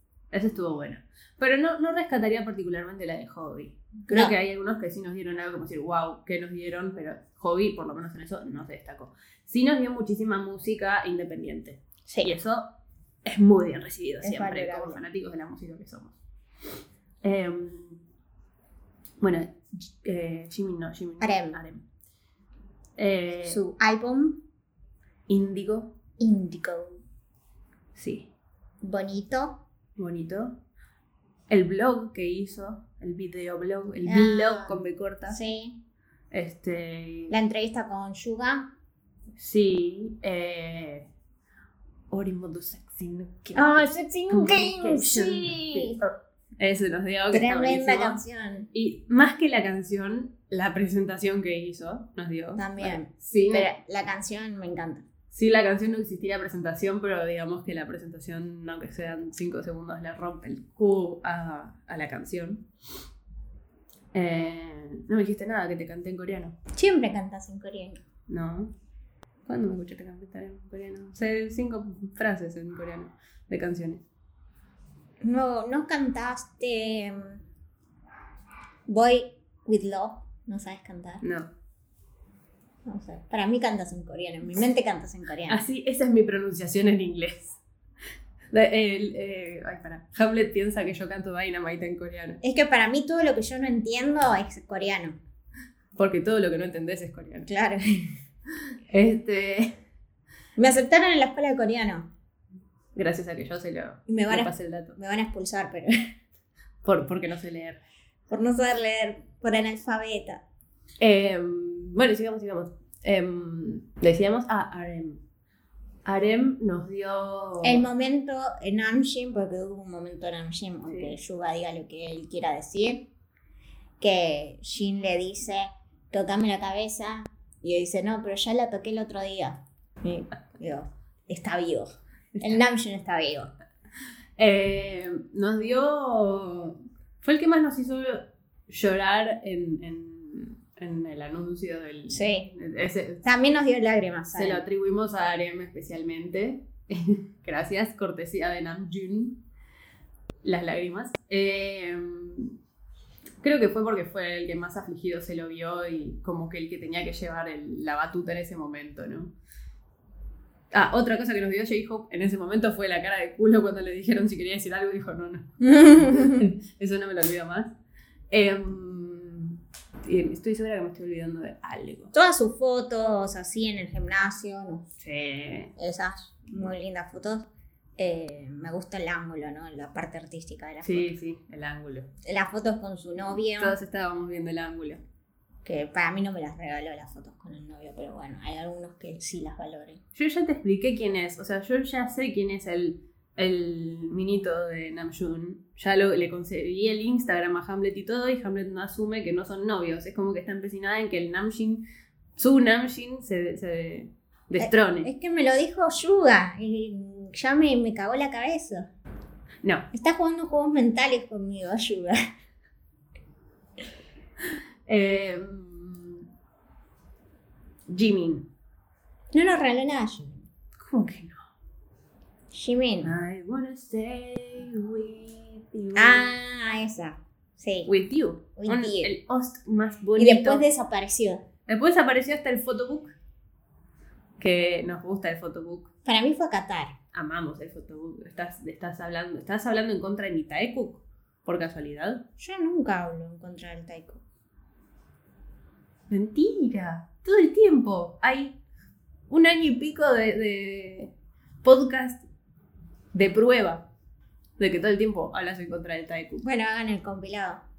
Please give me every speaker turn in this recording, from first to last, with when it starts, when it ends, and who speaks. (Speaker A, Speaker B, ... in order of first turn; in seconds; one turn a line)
Speaker A: 0.3-12.7
Speaker B: 4.1-4.3
Speaker B: 12.1-12.3
Speaker A: 13.2-16.2
Speaker B: 14.2-15.0
Speaker A: 17.2-18.0
Speaker A: 19.2-21.8
Speaker B: 21.2-21.6
Speaker A: 23.0-23.6
Speaker B: 23.4-24.4
Speaker A: 25.3-25.9
Speaker B: 26.2-27.0
Speaker A: 27.9-28.3
Speaker B: 28.8-29.6
Speaker A: 30.0-30.6
Speaker A: 31.5-35.4
Speaker B: 34.1-35.8
Speaker A: 36.3-37.3
Speaker B: 37.3-38.7
Speaker A: 39.4-41.1
Speaker A: 42.1-46.1
Speaker B: 43.5-46.0
Speaker A: 46.6-48.2
Speaker B: 47.3-48.7
Speaker A: 48.7-53.7
Speaker B: 52.6-55.0
Speaker A: 55.3-62.6
Speaker A: 64.1-66.6
Speaker B: 66.7-68.0
Speaker A: 68.3-68.7
Speaker A: 69.5-74.0
Speaker B: 75.2-77.4
Speaker B: 78.9-81.2
Speaker A: 81.2-81.5
Speaker B: 82.8-85.6
Speaker A: 85.5-87.6
Speaker A: 88.5-92.4
Speaker B: 92.4-95.2
Speaker A: 96.0-97.5
Speaker B: 97.5-98.2
Speaker A: 98.9-99.8
Speaker B: 100.6-102.1
Speaker A: 103.0-105.0
Speaker B: 104.1-105.9
Speaker A: 106.8-107.8
Speaker B: 108.3-110.4
Speaker A: 111.0-115.2
Speaker A: 116.0-117.9
Speaker B: 117.6-123.1
Speaker A: 120.9-121.2
Speaker B: 124.0-133.5
Speaker A: 134.4-143.2
Speaker B: 142.1-142.5
Speaker B: 143.2-144.6
Speaker A: 144.3-149.4
Speaker A: 150.4-152.6
Speaker A: 153.4-159.3
Speaker A: 160.7-167.7
Speaker B: 165.6-166.5
Speaker A: 168.3-172.1
Speaker B: 172.1-174.8
Speaker A: 175.0-175.7
Speaker B: 175.8-181.1
Speaker A: 180.8-182.1
Speaker B: 182.2-183.8
Speaker A: 183.6-185.0
Speaker B: 185.7-190.0
Speaker A: 190.2-201.8
Speaker A: 202.4-205.1
Speaker B: 204.6-208.9
Speaker B: 209.9-212.2
Speaker A: 214.9-216.3
Speaker A: 217.9-218.5
Speaker B: 219.3-220.5
Speaker A: 220.8-221.4
Speaker B: 222.5-223.1
Speaker A: 223.0-226.3
Speaker B: 225.9-227.9
Speaker A: 227.9-230.7
Speaker B: 228.6-229.1
Speaker B: 230.2-231.4
Speaker A: 231.7-233.1
Speaker A: 234.4-235.9
Speaker B: 236.1-236.9
Speaker A: 237.1-242.2
Speaker B: 242.4-244.2
Speaker A: 246.1-248.6
Speaker A: 249.3-251.1
Speaker A: 251.6-252.2
Speaker A: 253.1-253.8
Speaker A: 254.6-256.4
Speaker B: 256.4-257.6